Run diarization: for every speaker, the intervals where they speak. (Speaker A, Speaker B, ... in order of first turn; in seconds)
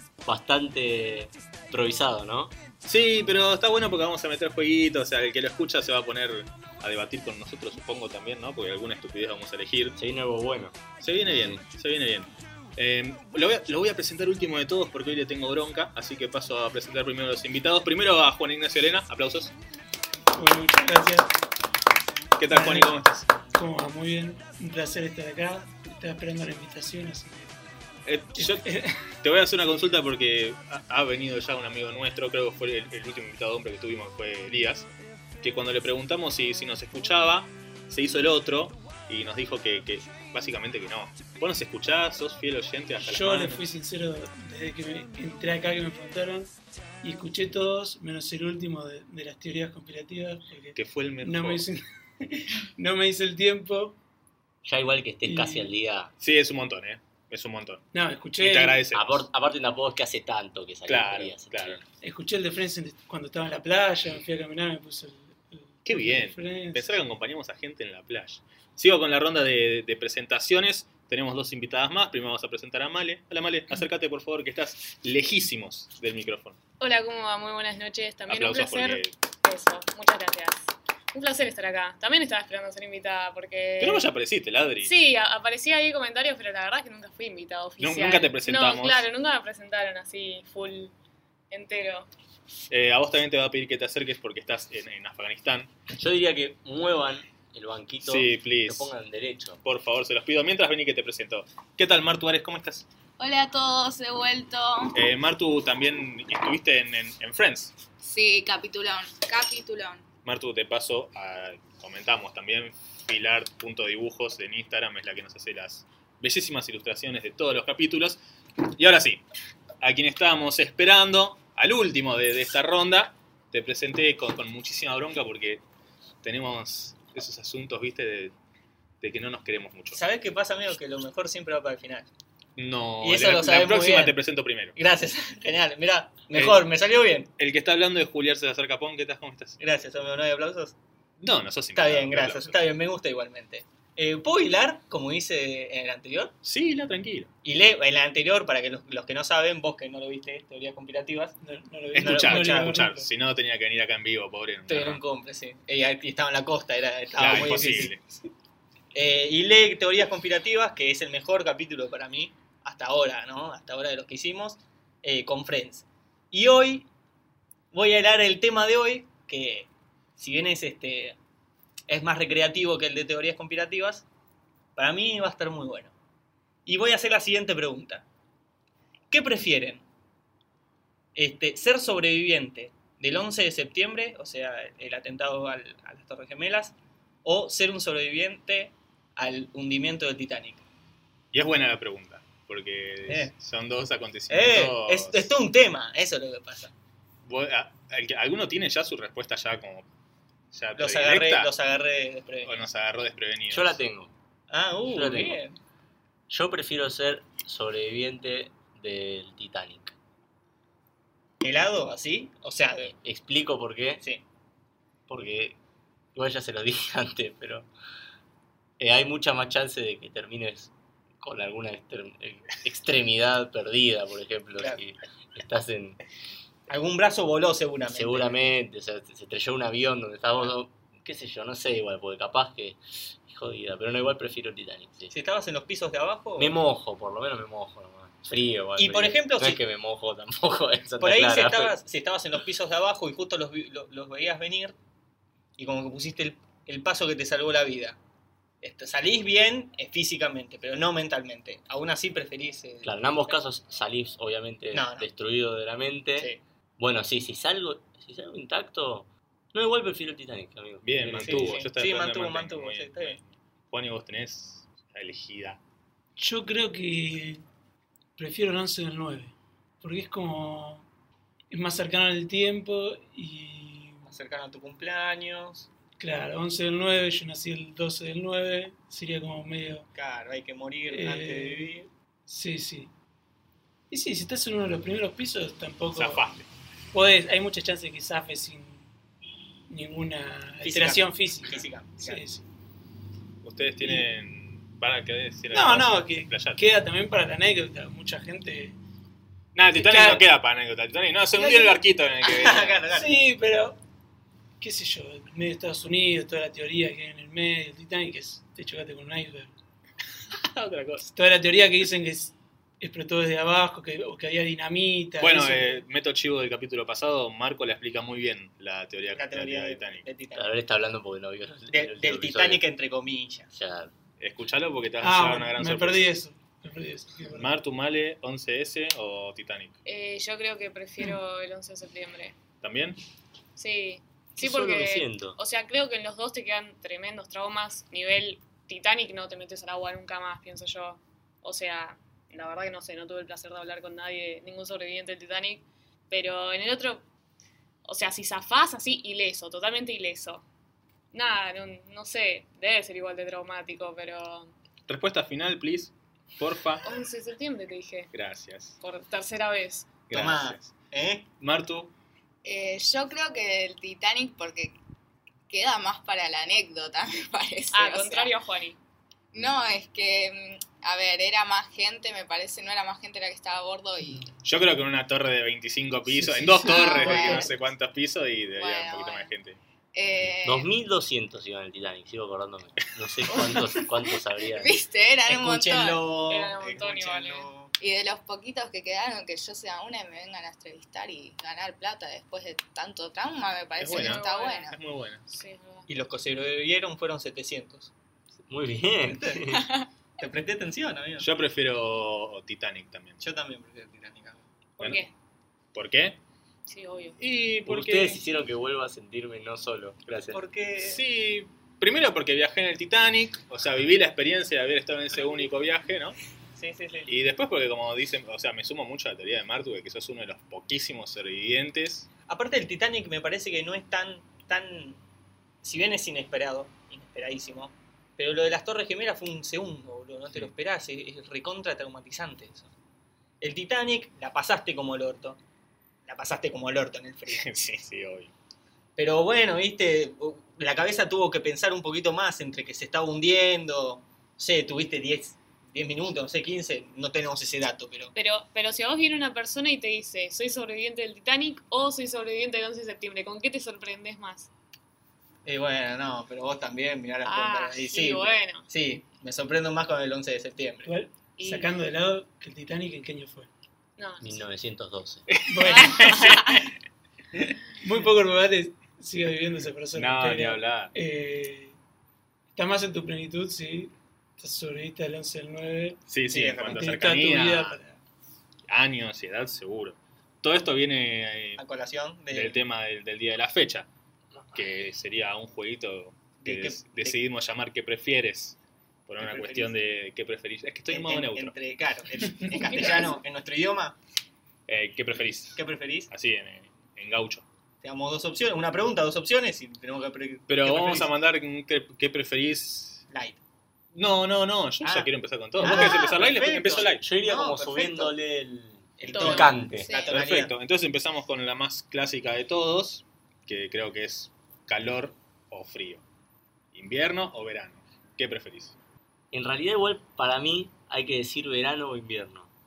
Speaker A: 0.3-2.5, 10.0-10.8, 54.6-56.1, 58.9-61.8, 95.9-99.6, 203.5-204.1, 204.8-205.4, 206.3-209.9, 212.9-214.0, 215.1-215.6, 216.2-217.7, 218.8-226.0, 227.9-235.1, 236.4-241.8, 252.8-261.6, 320.4-322.7, 323.5-323.9, 334.4-335.4, 380.4-384.8, 398.5-399.7, 407.7-410.4, 464.2-465.3, 506.9-509.9, 519.3-522.5
Speaker B: 2.9-10.0, 11.0-19.6, 22.4-23.3, 28.1-28.7, 29.2-34.9, 35.4-43.6, 50.8-51.7, 56.2-59.3, 60.9-61.8, 65.8-76.6, 78.3-79.2, 83.8-84.9, 87.8-89.1, 92.7-95.7, 98.0-98.9, 99.6-102.9, 104.9-107.8, 110.2-118.2, 118.8-119.2, 119.8-125.6, 126.2-128.3, 129.0-130.0, 132.6-134.8, 136.3-136.7, 137.4-139.6, 141.2-142.6, 146.4-147.3, 151.9-155.0, 157.2-158.0, 191.3-195.3, 197.2-199.9, 200.5-201.5, 202.4-203.8, 260.8-265.6, 285.9-286.5, 293.4-296.6, 299.6-302.8, 310.3-311.1, 315.2-320.1, 324.2-326.1, 327.3-329.8, 332.6-333.0, 354.9-356.9, 358.1-358.8, 360.1-360.7, 361.4-361.9, 374.4-379.6, 393.8-395.2, 401.2-403.2, 405.7-406.2, 407.2-408.2, 410.8-416.2, 417.1-422.1, 437.3-438.3, 465.3-466.6, 469.9-470.9, 476.1-477.8, 478.7-481.6, 482.3-483.9, 484.5-491.6, 494.7-497.5, 500.5-503.0, 503.9-507.1, 510.1-516.0, 516.7-518.8
Speaker C: 20.3-21.3, 22.5-22.9, 23.5-27.6, 28.4-28.9, 43.1-54.0, 55.2-55.7, 57.9-58.8, 62.0-67.0, 151.4-153.1, 266.2-267.4, 268.2-270.9, 271.5-274.1, 276.0-279.9, 280.9-281.7, 282.3-282.9, 283.9-286.3, 286.9-288.9, 289.7-292.4, 293.8-294.1, 295.5-298.8, 299.7-300.2, 301.4-301.8, 302.9-303.8, 304.6-309.5, 311.1-315.9, 325.0-327.5, 376.1-377.5, 460.9-463.5, 465.5-466.1, 467.8-471.8, 472.6-476.0, 476.7-478.0
Speaker D: 76.8-84.1, 84.8-90.9, 91.5-92.1, 329.9-332.4, 333.6-347.0, 347.9-350.4, 351.1-354.5, 356.8-358.1, 358.8-360.0, 367.7-368.8, 386.3-387.5, 393.8-394.7, 395.3-395.9, 404.8-405.1, 406.7-407.2, 448.2-454.5, 457.2-458.7, 461.4-461.8, 464.0-464.5, 465.8-466.4
Speaker E: 103.2-105.0, 108.0-110.0, 362.4-364.8, 365.5-368.3, 369.3-374.3, 376.6-377.6, 378.6-379.3, 379.9-380.7, 383.3-386.0, 387.8-394.8, 505.6-506.2, 509.1-510.2
Speaker F: 129.9-132.1, 133.0-134.2, 134.8-137.3, 139.6-140.8, 141.8-146.3, 147.4-151.3, 151.9-152.8, 154.7-158.0, 158.9-166.9, 167.7-171.2, 171.9-174.1, 174.8-175.9, 176.7-178.1, 179.1-179.8, 181.2-190.6, 193.1-193.3, 194.3-196.7, 200.8-202.6, 204.5-205.6, 211.4-212.9, 226.7-228.4, 235.1-236.6, 238.8-239.6, 241.0-244.8, 245.6-248.0, 248.6-253.4, 254.7-255.1, 256.2-256.4, 261.2-263.2, 274.1-275.7, 279.9-281.9, 290.6-292.2, 302.2-303.2, 319.1-320.5, 321.7-323.5, 360.1-361.3, 385.3-387.7, 395.9-397.9, 399.1-399.4, 400.2-401.3, 403.2-404.4, 410.3-411.0, 416.6-417.1, 422.3-425.0, 425.6-432.7, 433.4-435.4, 436.1-437.5, 439.0-448.1, 455.4-460.9, 476.3-477.0, 481.6-482.6, 486.4-487.2, 489.2-489.8, 490.9-494.0, 495.6-496.1, 497.8-501.1, 503.1-503.4, 504.8-508.2, 509.0-510.5